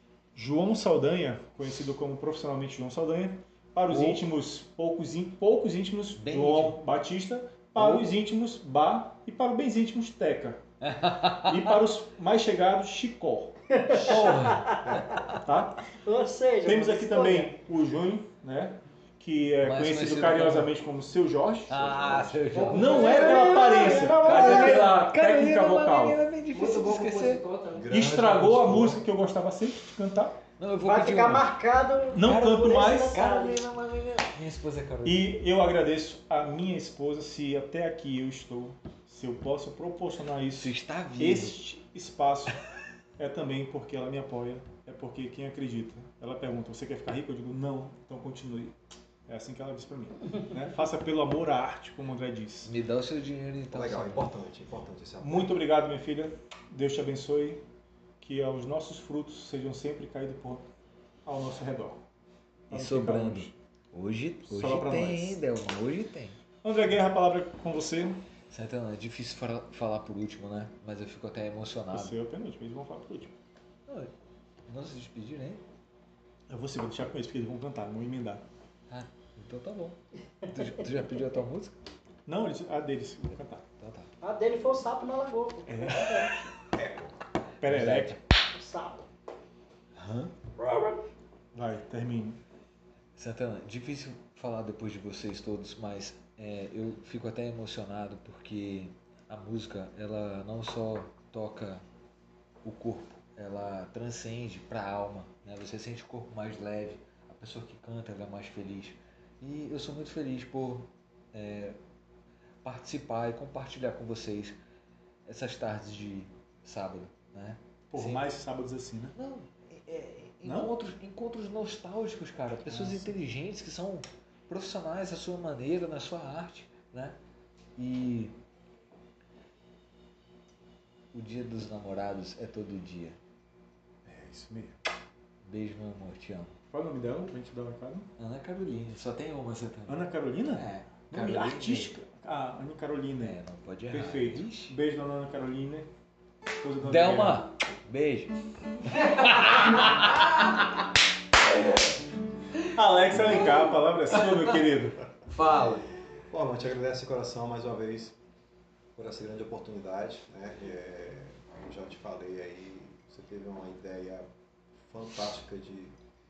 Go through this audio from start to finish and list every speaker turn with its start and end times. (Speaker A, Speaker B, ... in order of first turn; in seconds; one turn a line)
Speaker A: 0.3-10.6
Speaker B: 3.9-4.2
Speaker B: 6.2-6.8
Speaker B: 7.8-8.0
Speaker B: 10.8-11.8
Speaker A: 11.3-13.5
Speaker C: 13.7-15.3
Speaker B: 13.9-15.4
Speaker A: 15.4-15.8
Speaker C: 16.0-17.5
Speaker A: 16.6-21.9
Speaker B: 19.6-20.7
Speaker B: 21.7-27.4
Speaker D: 21.8-22.7
Speaker E: 22.6-23.3
Speaker A: 22.7-26.2
Speaker C: 22.9-24.9
Speaker E: 26.5-27.9
Speaker D: 27.7-29.0
Speaker A: 27.9-30.4
Speaker B: 30.6-31.5
Speaker C: 30.8-33.6
Speaker A: 32.1-33.2
Speaker B: 32.2-35.2
Speaker A: 35.0-42.6
Speaker B: 40.5-41.6
Speaker A: 43.2-48.7
Speaker A: 49.3-52.7
Speaker B: 52.6-54.3
Speaker D: 53.7-55.5
Speaker A: 55.2-57.6
Speaker A: 58.2-60.6
Speaker A: 61.2-62.0
Speaker A: 62.7-63.5
Speaker B: 62.7-66.4
Speaker A: 64.5-65.4
Speaker A: 66.6-68.2
Speaker B: 68.5-72.2
Speaker A: 71.9-73.3
Speaker B: 74.7-75.6
Speaker A: 76.5-78.4
Speaker B: 78.9-81.8
Speaker A: 82.3-83.6
Speaker B: 83.8-84.1
Speaker C: 84.2-86.3
Speaker A: 85.7-86.4
Speaker A: 87.6-88.2
Speaker B: 87.6-88.2
Speaker C: 88.5-89.1
Speaker B: 90.0-90.3
Speaker C: 90.6-91.0
Speaker A: 91.5-92.4
Speaker B: 93.2-101.8
Speaker B: 102.6-111.8
Speaker B: 112.6-114.6
Speaker B: 115.2-118.3
Speaker A: 117.9-119.1
Speaker B: 119.1-127.2
Speaker A: 120.4-120.7
Speaker A: 122.7-123.1
Speaker B: 127.8-128.3
Speaker B: 131.1-133.2
Speaker A: 134.1-134.7
Speaker B: 135.4-136.6
Speaker A: 136.7-138.1
Speaker B: 138.2-140.0
Speaker A: 139.9-143.4
Speaker B: 140.5-141.9
Speaker B: 143.2-144.8
Speaker A: 143.9-145.9
Speaker A: 146.6-147.4
Speaker B: 146.8-150.5
Speaker A: 152.6-155.0
Speaker B: 155.3-155.8
Speaker D: 156.3-158.2
Speaker D: 158.9-164.2
Speaker D: 164.8-165.9